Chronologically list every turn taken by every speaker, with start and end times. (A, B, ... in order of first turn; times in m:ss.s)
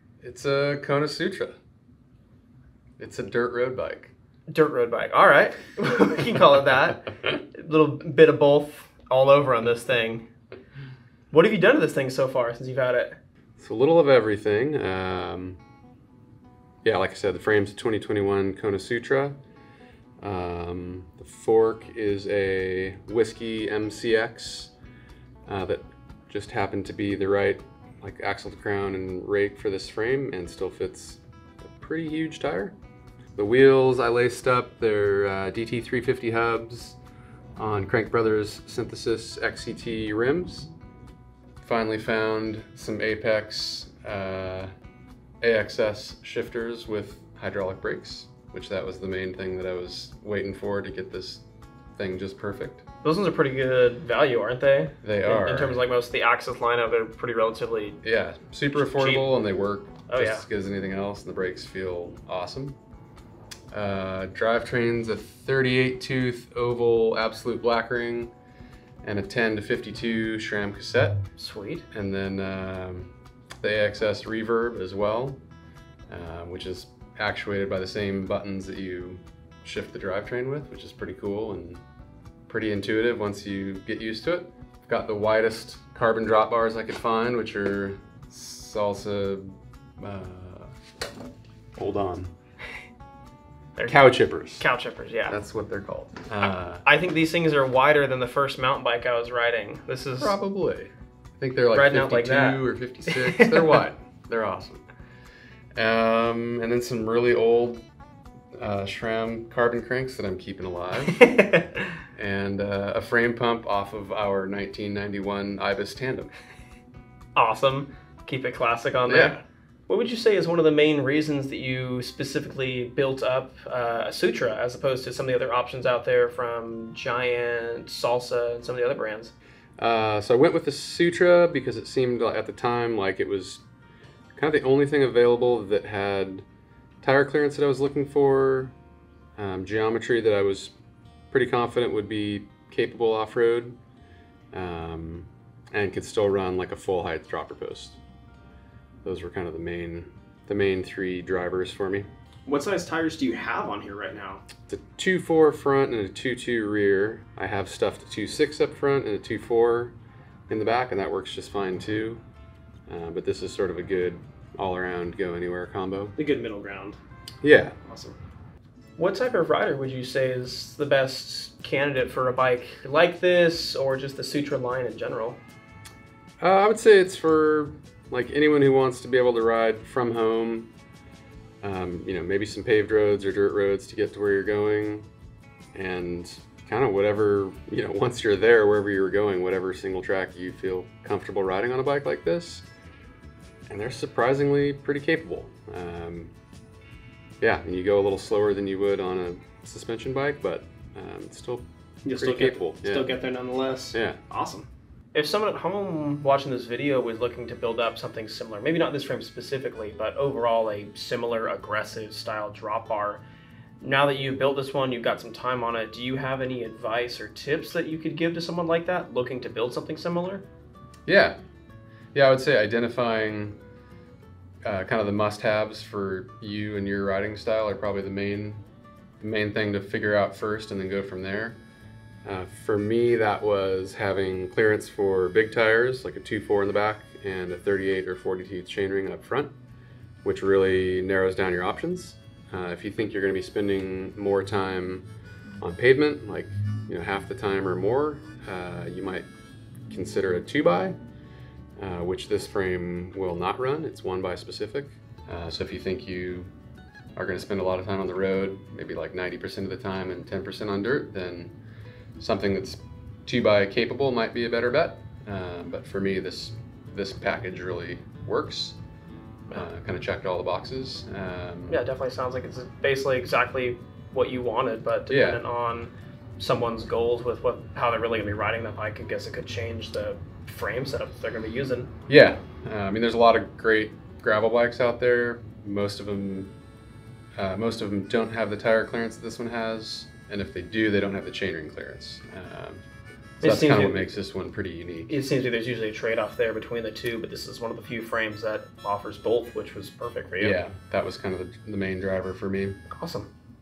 0:00.2-0:01.6 A
0:03.0-0:04.1 A
0:04.5-0:10.3 B
0:11.3-0:13.2 B
0:13.6-0:15.6 A
0:16.8-0:19.4 A
0:20.2-0:24.7 A
0:25.5-0:32.8 A
0:33.4-0:37.0 A
0:37.6-0:40.7 A
0:41.6-0:44.7 A
0:45.4-0:51.4 A
0:52.0-0:52.8 A
0:53.0-0:58.0 B
0:55.0-0:55.8 A
0:58.0-1:02.8 A
0:58.8-0:59.3 B
1:00.1-1:00.4 B
1:03.7-1:08.3 A
1:09.0-1:11.2 A
1:11.4-1:11.8 B
1:11.9-1:13.1 A
1:13.6-1:15.4 A
1:16.1-1:21.8 A
1:22.5-1:30.7 A
1:31.8-1:32.3 A
1:33.9-1:34.6 A
1:34.6-1:35.4 B
1:35.3-1:36.8 A
1:36.4-1:40.4 B
1:40.2-1:44.8 A
1:41.7-1:43.6 B
1:45.8-1:47.8 A
1:48.6-1:51.3 A
1:51.2-1:51.8 B
1:52.2-1:56.3 A
1:57.4-2:09.3 B
1:59.1-1:59.4 A
2:09.8-2:13.6 A
2:14.4-2:16.5 A
2:17.0-2:18.8 A
2:19.4-2:20.7 A
2:21.3-2:23.8 A
2:24.5-2:28.0 A
2:29.0-2:32.1 A
2:32.5-2:34.4 B
2:34.7-2:40.0 A
2:40.5-2:42.2 A
2:42.9-2:46.2 A
2:46.2-2:47.0 B
2:47.4-2:47.8 A
2:47.8-2:48.2 B
2:49.0-2:55.4 B
2:56.4-3:00.7 A
3:01.6-3:05.1 A
3:05.8-3:12.6 A
3:13.7-3:16.3 A
3:17.4-3:23.1 A
3:22.0-3:33.2 B
3:23.9-3:24.2 A
3:33.8-3:40.4 B
3:41.1-3:41.4 A
3:42.1-3:43.6 A
3:44.6-3:48.6 A
3:49.2-3:51.6 A
3:52.2-3:59.5 A
4:00.2-4:05.0 A
4:05.6-4:09.3 A
4:09.9-4:11.0 A
4:11.8-4:16.5 A
4:17.2-4:21.5 A
4:22.2-4:28.8 A
4:29.5-4:31.8 A
4:31.7-4:41.9 B
4:35.1-4:35.4 A
4:42.1-4:46.5 A
4:47.4-4:52.8 A
4:53.4-4:55.2 A
4:53.4-4:54.0 B
4:55.1-5:00.6 B
5:00.4-5:02.8 A
5:02.9-5:03.3 B